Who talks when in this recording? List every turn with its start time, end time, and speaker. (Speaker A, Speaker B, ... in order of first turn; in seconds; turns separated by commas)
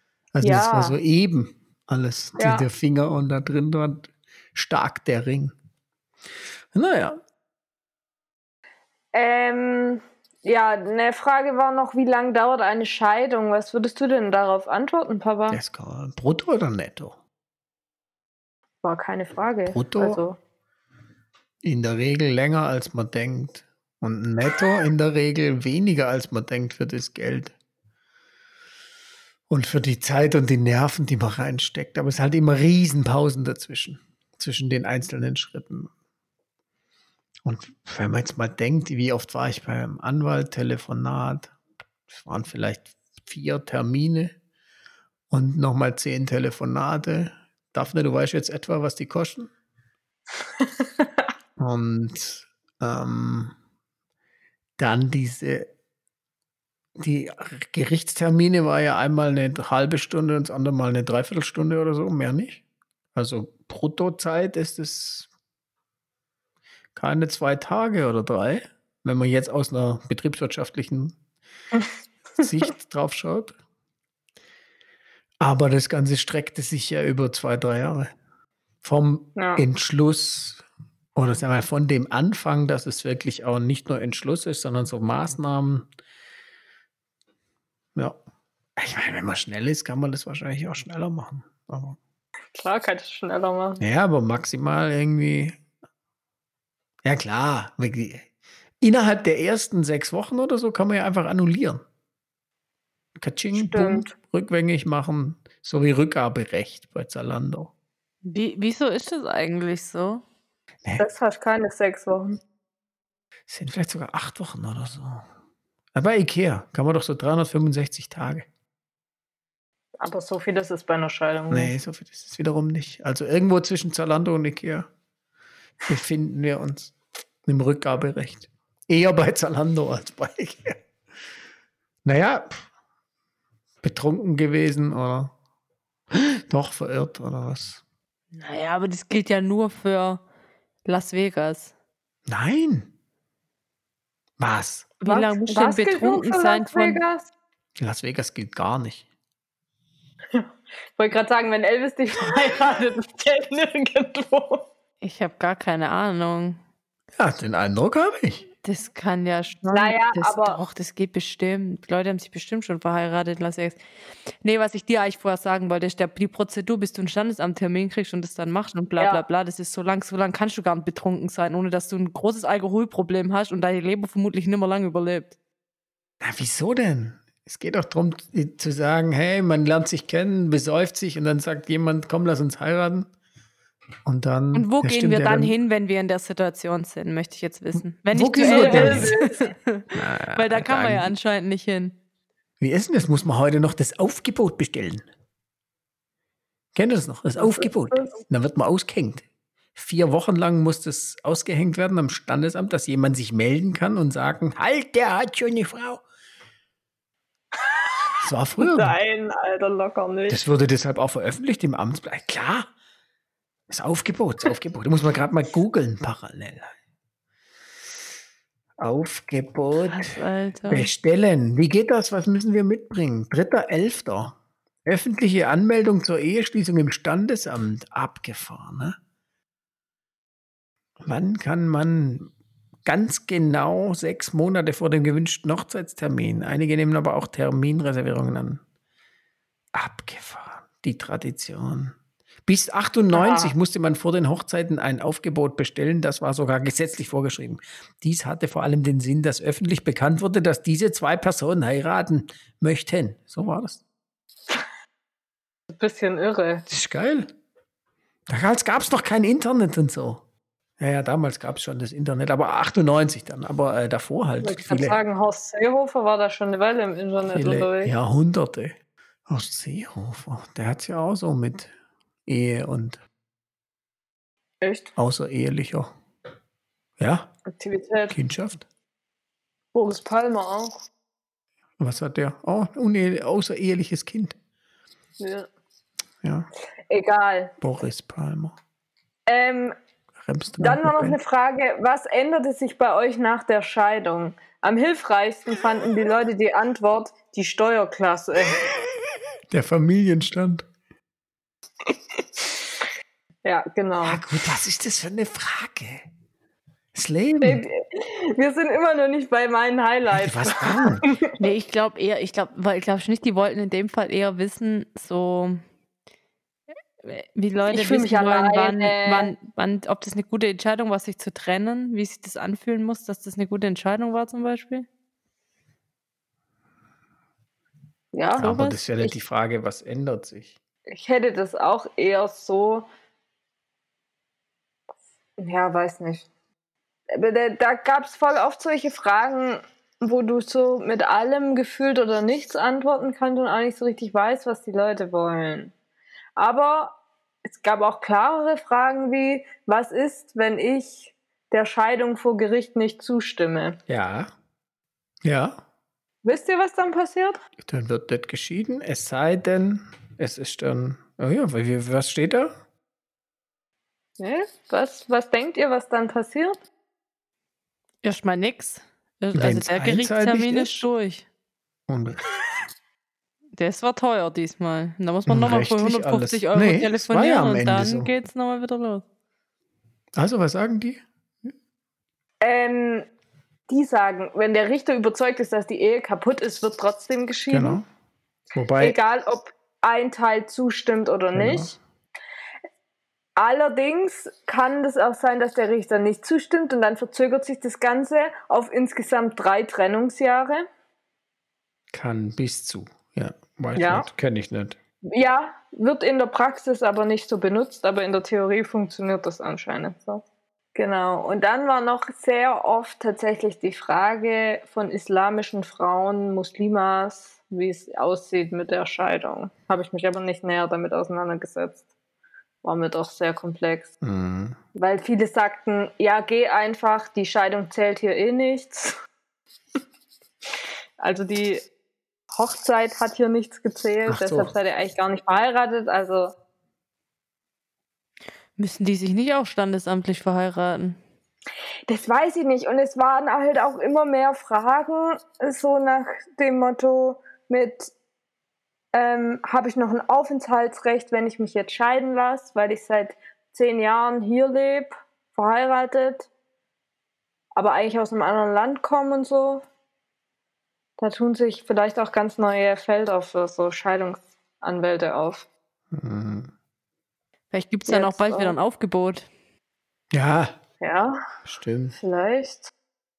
Speaker A: 0.3-5.5, Speaker B: 0.4-1.0, Speaker B: 2.4-2.6, Speaker A: 6.7-7.2, Speaker B: 9.1-15.6, Speaker A: 15.5-17.2, Speaker B: 18.8-20.4, Speaker A: 19.7-20.2, Speaker A: 21.6-27.6, Speaker A: 29.5-35.9, Speaker A: 37.4-41.5, Speaker A: 42.1-44.3, Speaker A: 45.3-49.5, Speaker B: 50.6-51.1, Speaker A: 51.6-53.5, Speaker A: 54.8-55.7, Speaker A: 57.0-62.6, Speaker A: 63.1-65.3, Speaker A: 67.0-71.2, Speaker B: 71.7-72.5, Speaker A: 72.4-73.5, Speaker A: 75.4-78.1, Speaker A: 78.8-80.6, Speaker B: 79.4-79.6, Speaker A: 81.2-85.9, Speaker A: 88.8-92.0, Speaker B: 92.5-93.8, Speaker A: 93.8-95.6, Speaker A: 97.0-98.3, Speaker A: 98.8-101.8, Speaker A: 103.2-107.7, Speaker B: 103.5-104.1, Speaker C: 108.2-110.2, Speaker B: 111.0-112.4, Speaker A: 113.5-115.2, Speaker A: 115.9-118.5, Speaker B: 120.0-121.7, Speaker A: 121.5-124.9, Speaker A: 125.9-130.8, Speaker A: 132.0-132.7, Speaker A: 133.8-135.3, Speaker A: 136.1-137.8, Speaker C: 138.3-140.2, Speaker C: 140.8-141.7, Speaker A: 142.3-142.9, Speaker A: 144.4-145.0, Speaker C: 145.0-147.0, Speaker B: 145.1-147.3, Speaker A: 147.8-149.1, Speaker B: 150.3-154.7, Speaker C: 155.0-156.6, Speaker A: 157.2-158.5, Speaker C: 158.6-163.8, Speaker B: 159.7-160.6, Speaker C: 164.4-175.4, Speaker B: 169.0-169.2, Speaker A: 176.2-183.1, Speaker A: 184.1-185.5, Speaker C: 184.5-191.9, Speaker A: 188.1-189.2, Speaker B: 188.4-189.5, Speaker A: 189.9-191.1, Speaker A: 192.6-195.1, Speaker A: 196.8-199.2, Speaker B: 197.4-198.2, Speaker A: 199.8-206.0, Speaker B: 207.6-210.4, Speaker A: 208.2-209.0, Speaker A: 210.3-212.7, Speaker A: 213.7-216.7, Speaker A: 218.8-220.2, Speaker C: 219.8-220.9, Speaker A: 220.7-229.0, Speaker A: 231.0-232.3, Speaker A: 232.8-238.6, Speaker A: 239.7-241.9, Speaker A: 242.5-253.8, Speaker B: 243.1-243.5, Speaker B: 255.7-256.7, Speaker A: 256.7-257.3, Speaker A: 258.3-260.2, Speaker A: 260.8-265.0, Speaker B: 264.4-267.9, Speaker A: 267.3-268.8, Speaker A: 269.3-271.7, Speaker A: 272.3-273.0, Speaker B: 274.6-274.9, Speaker A: 275.0-275.9, Speaker A: 277.0-277.3, Speaker B: 277.5-278.1, Speaker A: 278.1-278.6, Speaker B: 279.7-280.8, Speaker A: 281.8-284.4, Speaker B: 285.2-285.5, Speaker A: 286.2-286.5, Speaker B: 286.9-287.6, Speaker A: 287.6-288.6, Speaker B: 289.3-289.8, Speaker A: 290.2-291.2, Speaker B: 290.6-298.6, Speaker A: 299.5-300.7, Speaker B: 301.9-302.6, Speaker B: 303.4-304.2, Speaker A: 304.0-306.1, Speaker A: 306.9-307.6, Speaker B: 307.4-311.4, Speaker A: 310.1-311.1, Speaker C: 311.4-315.6, Speaker C: 317.0-324.9, Speaker B: 317.7-319.3, Speaker B: 328.1-329.1, Speaker A: 328.4-330.5, Speaker C: 328.4-328.8, Speaker B: 330.9-332.9, Speaker B: 335.4-336.3, Speaker B: 337.1-345.7, Speaker B: 346.4-353.8, Speaker A: 353.9-354.3, Speaker A: 355.2-355.6, Speaker B: 356.2-357.4, Speaker A: 357.6-362.6, Speaker B: 364.2-366.6, Speaker C: 368.0-371.3, Speaker A: 369.4-370.9, Speaker A: 371.9-372.2, Speaker C: 373.6-379.1, Speaker A: 375.3-378.1, Speaker A: 380.1-381.0, Speaker B: 382.4-383.1, Speaker B: 383.7-387.8, Speaker A: 387.5-387.9, Speaker A: 388.6-389.0, Speaker B: 388.8-391.8, Speaker A: 391.3-391.8, Speaker B: 393.4-400.7, Speaker A: 401.9-404.8, Speaker B: 403.8-404.1, Speaker B: 405.1-410.2, Speaker B: 410.8-421.8, Speaker B: 422.6-423.9, Speaker A: 424.0-424.6, Speaker B: 424.8-429.0, Speaker B: 431.0-431.7, Speaker B: 432.3-436.3, Speaker A: 434.1-434.5, Speaker C: 438.6-441.0, Speaker B: 441.9-447.9, Speaker B: 448.9-456.3, Speaker B: 457.6-459.6, Speaker B: 461.0-465.5, Speaker A: 465.9-466.5, Speaker C: 467.5-469.3, Speaker B: 467.9-468.6, Speaker A: 470.1-470.6, Speaker B: 470.8-471.2, Speaker A: 471.5-472.0, Speaker B: 472.0-472.7